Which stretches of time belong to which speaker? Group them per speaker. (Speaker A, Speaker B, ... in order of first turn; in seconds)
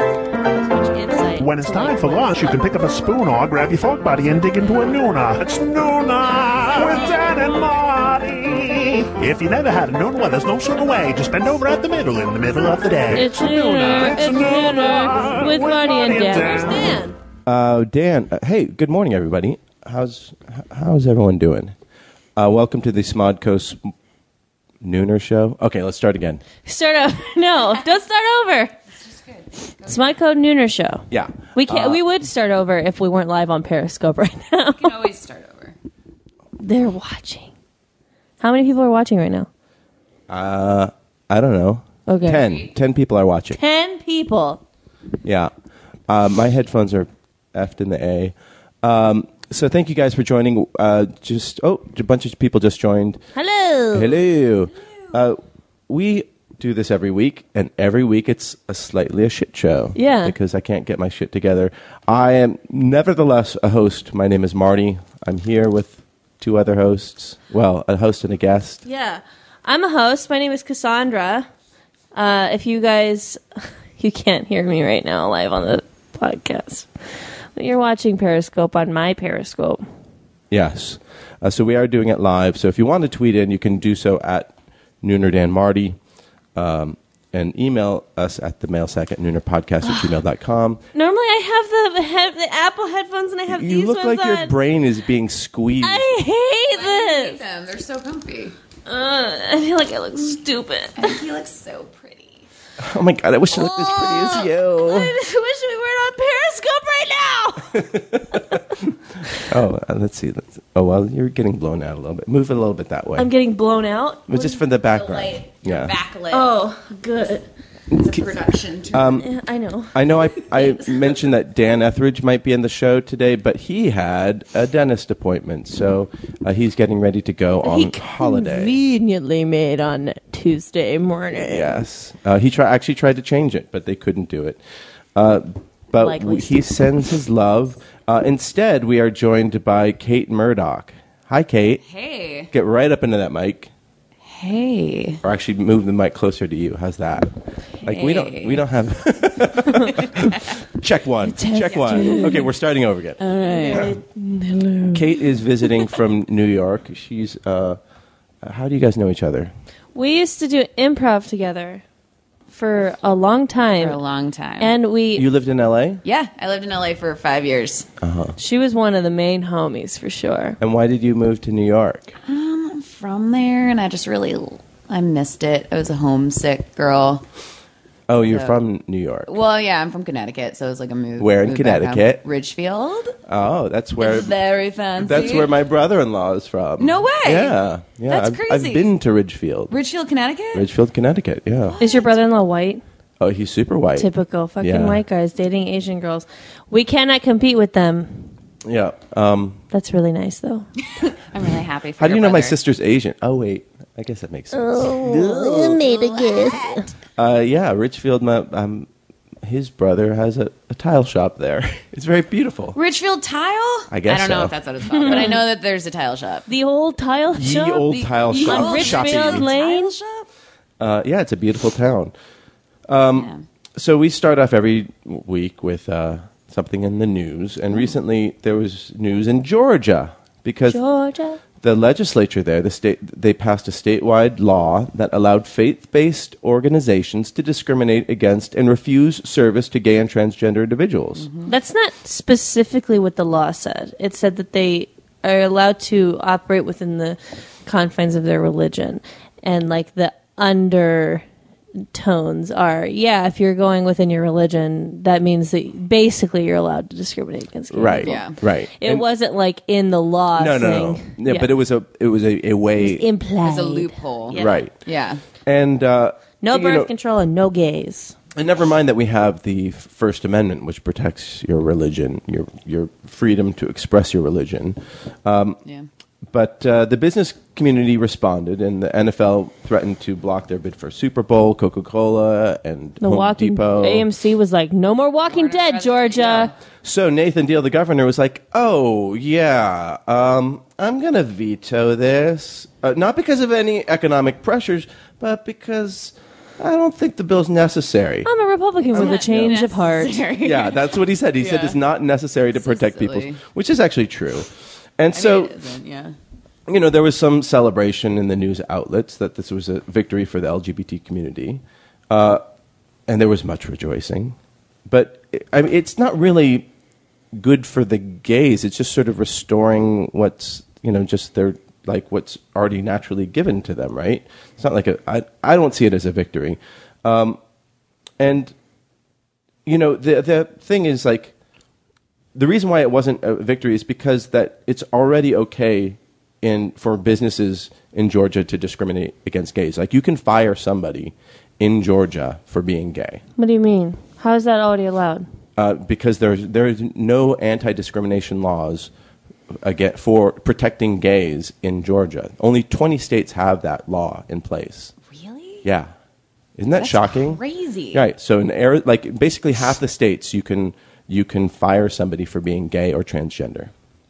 Speaker A: 0.6-2.6, 13.1-17.1, 26.6-28.7, 29.8-31.0, 31.5-34.9, 36.6-37.5, 38.4-39.5, 42.1-42.4, 43.5-44.6, 53.4-54.2, 60.0-60.3, 68.8-71.5, 72.1-73.4, 74.0-76.9, 77.5-79.8, 89.8-90.1, 90.9-94.5, 95.8-97.4, 98.8-101.1, 103.5-108.6, 113.2-114.6, 116.3-117.5, 119.2-120.9, 127.6-131.8, 135.9-136.6, 151.2-152.5, 153.2-155.1, 159.9-161.8, 162.5-164.0, 164.6-165.3, 168.4-170.6, 191.8-192.8, 194.0-198.3, 199.7-200.7, 204.5-206.8, 214.9-215.4, 216.5-219.9, 230.7-231.4, 241.5-251.2, 251.9-261.5, 262.8-264.5, 266.4-268.1, 283.0-286.5, 298.3-300.2, 343.4-345.2
Speaker B: 1.4-17.0
Speaker C: 17.4-21.7, 22.4-23.9, 24.8-26.4, 31.1-32.0, 40.3-43.6, 45.2-45.5, 46.1-53.2, 53.9-68.8, 80.5-86.0, 86.5-90.8, 93.5-96.1, 102.8-105.2, 107.7-113.3, 114.3-115.9, 117.9-118.2, 118.9-119.2, 119.9-128.8, 131.3-134.6, 135.1-141.8, 142.5-143.7, 145.2-147.3, 147.8-153.2, 154.9-157.8, 158.4-159.5, 165.1-166.0, 168.0-168.3, 170.6-172.1, 178.1-179.3, 181.2-182.2, 183.3-184.3, 185.0-189.7, 190.5-191.8, 193.2-194.1, 194.6-195.0, 198.6-199.6, 202.0-205.8, 207.2-208.9, 209.4-212.8, 213.9-215.4, 217.3-219.5, 220.8-222.1, 222.9-230.8, 231.6-241.3, 257.7-259.1, 260.3-263.1, 264.3-264.7, 265.4-266.9, 268.3-275.6, 276.3-284.1, 286.8-298.3, 298.9-299.6, 300.4-305.5, 306.7-312.4, 313.1-314.4, 314.9-316.7, 317.3-327.4, 328.2-328.5, 329.6-331.3, 332.3-343.2, 345.6-348.9, 349.6-354.9, 355.6-355.9, 356.6-357.4, 357.9-363.7
Speaker D: 29.0-30.0, 34.8-35.8, 42.4-42.7, 96.7-98.5, 101.0-102.5, 114.8-116.5, 117.9-119.2, 141.8-142.5, 144.2-145.2, 147.8-148.6, 151.7-152.4, 153.3-153.9, 163.8-164.8, 166.0-167.9, 172.2-177.2, 178.3-178.5, 179.3-183.2, 184.0-185.5, 186.8-187.6, 188.1-188.9, 189.7-190.7, 191.7-192.2, 201.0-202.6, 205.8-206.9, 212.7-216.5, 217.9-220.2, 223.1-223.4, 241.2-241.5, 258.0-258.4, 263.4-265.2, 285.2-286.5, 298.9-300.9, 301.4-301.8, 302.5-303.4, 305.1-306.1, 355.1-355.6, 356.7-358.0